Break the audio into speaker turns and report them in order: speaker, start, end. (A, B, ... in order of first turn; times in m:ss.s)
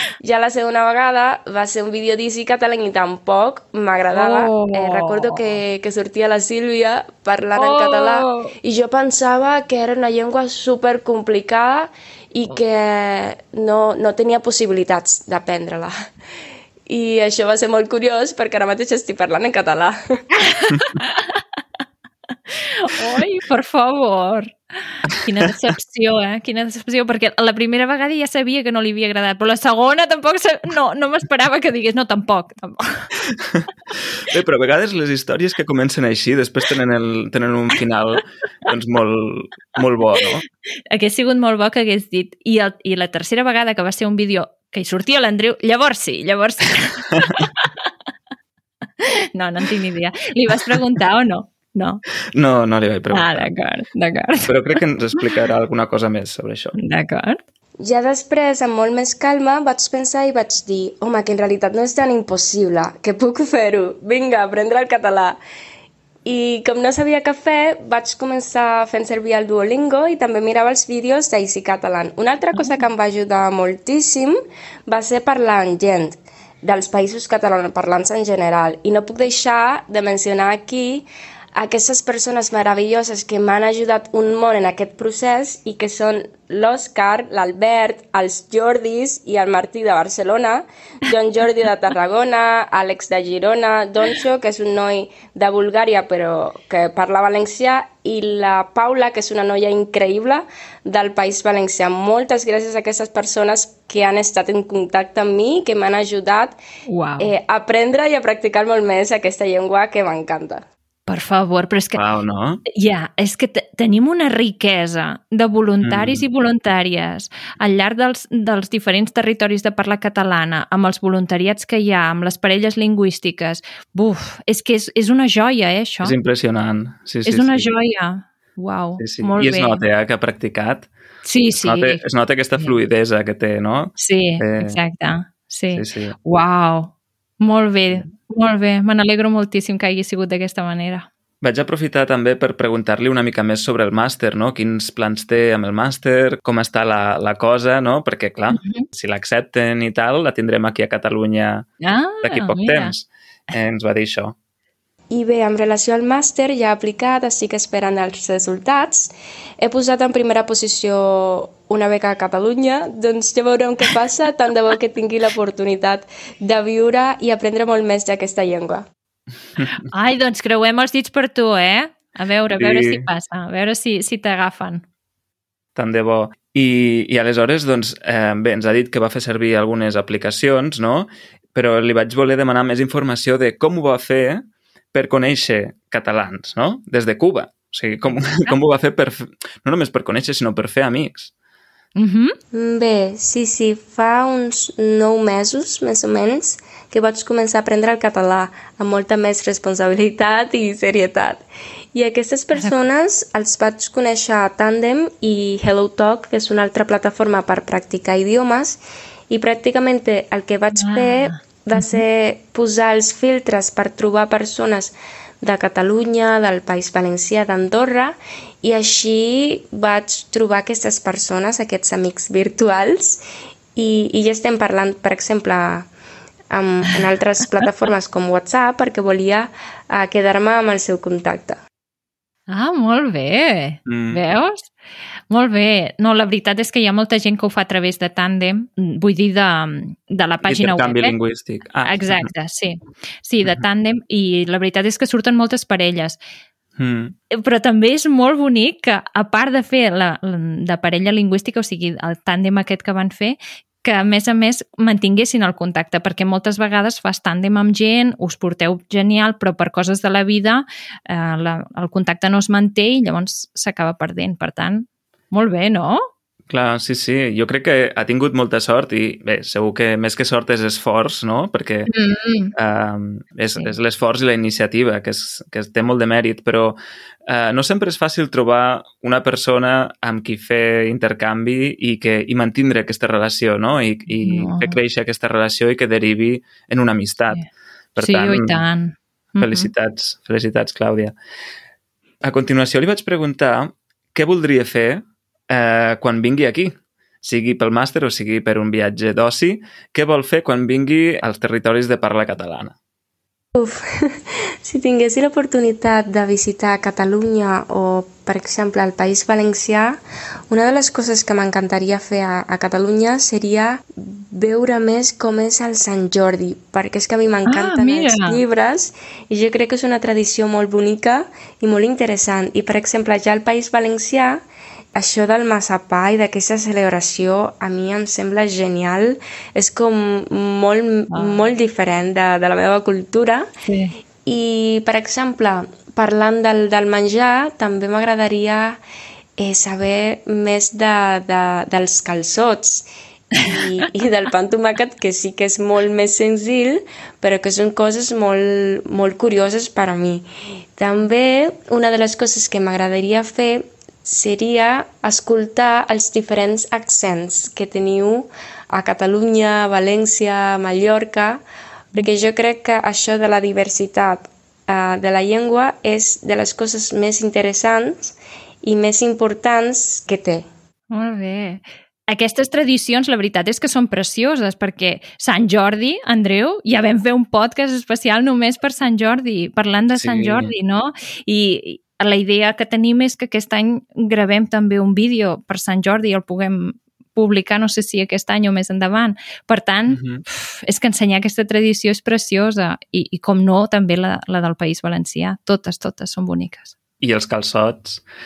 0:00.2-0:15.9 A
0:04.1-0:05.6 B
0:07.5-0:08.5 B
0:16.8-0:20.2 A
0:20.4-0:21.4 B
0:22.5-0:33.1 B
0:33.4-0:40.4 C
0:40.9-0:47.9 B
0:49.0-0:52.0 B
0:52.3-0:53.5 C
0:53.1-0:54.5 B
0:54.4-0:56.7 C
0:56.8-0:57.4 B
0:57.8-1:05.4 A
1:06.2-1:14.4 A
1:14.9-1:46.6 A
1:46.9-1:47.3 B
1:47.2-1:50.6 A
1:51.1-1:52.0 B
1:52.0-1:52.6 C
1:52.7-2:06.1 B
1:55.8-1:56.2 C
2:06.0-2:07.7 C
2:07.2-2:09.8 B
2:09.0-2:10.9 C
2:11.2-2:12.0 B
2:11.6-2:14.8 C
2:14.0-2:21.0 B
2:15.7-2:16.2 C
2:21.4-2:31.7 C
2:28.5-2:28.8 B
2:31.8-2:32.9 B
2:32.2-2:34.4 C
2:35.1-2:48.9 A
2:49.8-2:54.8 B
2:52.5-2:53.0 C
2:55.7-3:11.3 C
3:12.0-3:12.3 B
3:12.5-3:43.2 A
3:30.7-3:32.0 B
3:43.8-3:45.9 A
3:46.5-3:51.6 A
3:52.5-3:54.7 B
3:53.8-3:54.2 C
3:55.3-4:01.1 B
4:00.4-4:02.3 C
4:01.8-4:06.2 B
4:06.8-4:07.1 C
4:07.3-4:26.0 B
4:26.5-4:31.9 C
4:31.9-4:32.5 B
4:32.5-4:47.4 C
4:44.2-4:44.8 B
4:47.9-4:48.6 C
4:48.0-4:49.7 B
4:49.4-4:51.1 C
4:52.2-5:02.7 C
5:03.6-5:10.0 A
5:10.5-5:24.4 A
5:17.4-5:18.4 B
5:24.9-5:33.5 A
5:31.1-5:31.5 B
5:33.6-5:33.9 B
5:34.2-5:38.8 A
5:39.4-5:50.2 A
5:50.8-6:01.4 A
6:01.9-6:10.5 A
6:10.9-6:36.7 B
6:19.9-6:20.5 C
6:29.9-6:30.2 C
6:37.0-6:38.0 C